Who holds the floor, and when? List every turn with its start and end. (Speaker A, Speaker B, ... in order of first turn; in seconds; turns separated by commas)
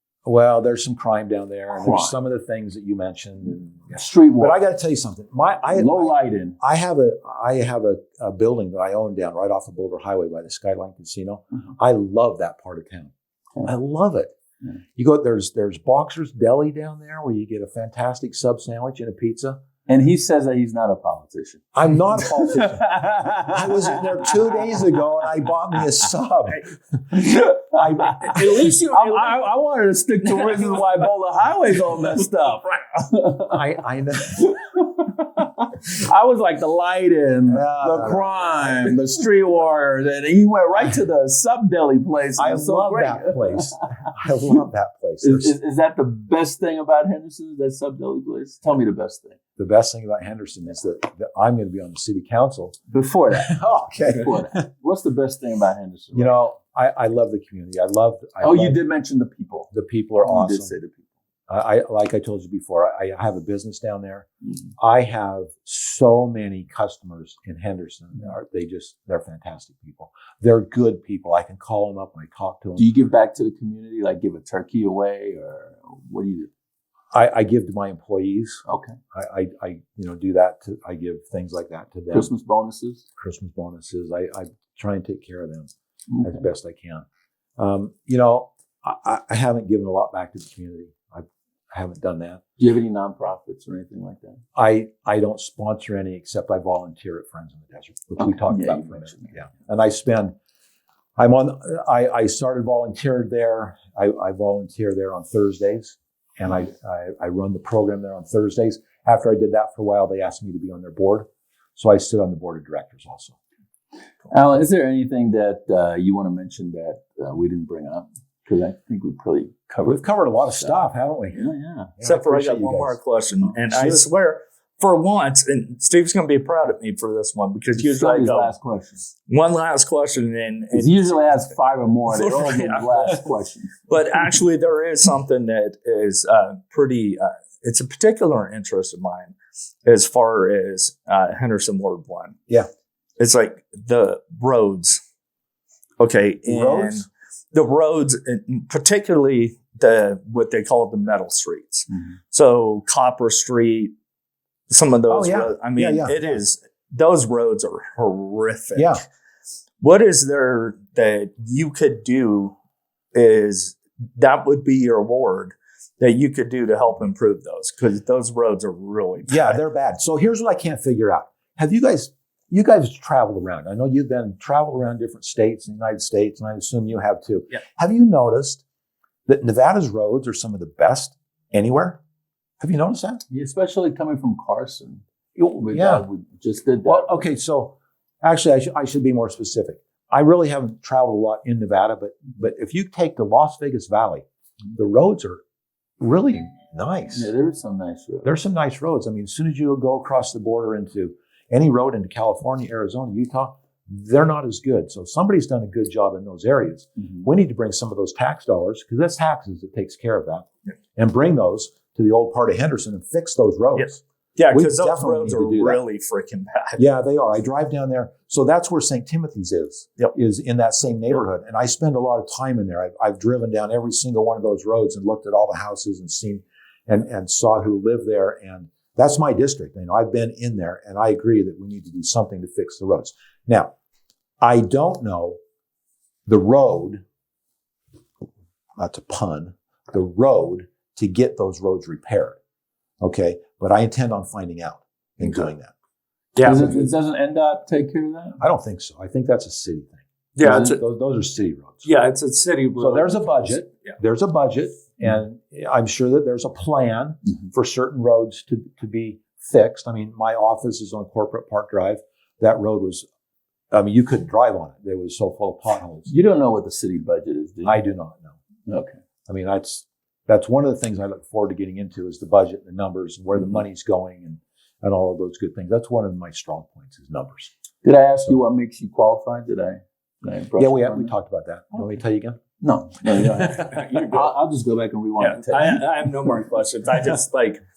Speaker A: 0.2-13.1, Speaker B: 1.7-2.2, Speaker B: 3.9-4.6, Speaker B: 5.7-6.6, Speaker A: 13.6-14.3, Speaker A: 15.0-19.6, Speaker B: 19.9-25.0, Speaker A: 21.7-22.9, Speaker A: 23.5-28.8, Speaker B: 27.1-33.7, Speaker C: 28.2-29.4, Speaker C: 30.3-30.8, Speaker A: 33.5-34.5, Speaker B: 34.3-44.5, Speaker A: 37.5-38.9, Speaker A: 42.4-45.5, Speaker B: 45.2-49.4, Speaker A: 49.6-52.8, Speaker B: 52.9-56.4, Speaker A: 53.4-54.6, Speaker A: 56.1-58.8, Speaker B: 58.4-61.0, Speaker A: 59.7-60.7, Speaker A: 61.5-64.3, Speaker A: 64.8-72.9, Speaker B: 72.8-76.5, Speaker A: 77.1-82.3, Speaker B: 78.7-79.0, Speaker B: 82.1-83.0, Speaker A: 83.2-87.0, Speaker B: 86.1-86.5, Speaker A: 87.6-92.4, Speaker B: 92.6-94.4, Speaker A: 94.5-100.3, Speaker B: 98.2-99.4, Speaker A: 101.2-113.4, Speaker B: 114.3-121.9, Speaker A: 119.8-121.5, Speaker A: 122.0-123.0, Speaker C: 122.0-128.5, Speaker A: 123.5-124.0, Speaker B: 127.8-129.0, Speaker C: 129.3-131.1, Speaker B: 130.7-133.8, Speaker C: 132.1-133.2, Speaker C: 133.9-139.3, Speaker C: 139.8-142.4, Speaker C: 143.2-145.0, Speaker C: 146.0-153.9, Speaker A: 146.4-147.1, Speaker C: 154.7-159.0, Speaker A: 155.1-156.4, Speaker A: 158.7-159.0, Speaker C: 159.8-162.5, Speaker C: 163.1-169.6, Speaker A: 169.3-178.6, Speaker A: 179.3-182.0, Speaker A: 182.6-183.2, Speaker B: 183.3-185.0, Speaker A: 185.3-186.0, Speaker B: 185.6-187.3, Speaker A: 186.8-195.4, Speaker A: 196.0-197.3, Speaker B: 197.1-198.3, Speaker A: 198.2-215.8, Speaker C: 213.8-216.8, Speaker A: 216.8-233.7, Speaker A: 234.4-235.4, Speaker A: 236.3-237.0, Speaker A: 238.8-242.4, Speaker A: 243.0-245.7, Speaker C: 245.2-245.5, Speaker C: 246.3-246.9, Speaker B: 246.4-248.4, Speaker A: 248.4-251.9, Speaker C: 250.3-250.8, Speaker B: 250.4-250.7, Speaker C: 251.8-253.9, Speaker A: 252.8-263.1, Speaker A: 263.7-266.1, Speaker B: 266.1-267.8, Speaker A: 267.6-268.4, Speaker B: 268.7-269.0, Speaker A: 269.3-277.5, Speaker B: 277.8-281.1, Speaker A: 280.6-282.4, Speaker B: 282.6-285.8, Speaker C: 283.7-284.3, Speaker C: 285.2-287.6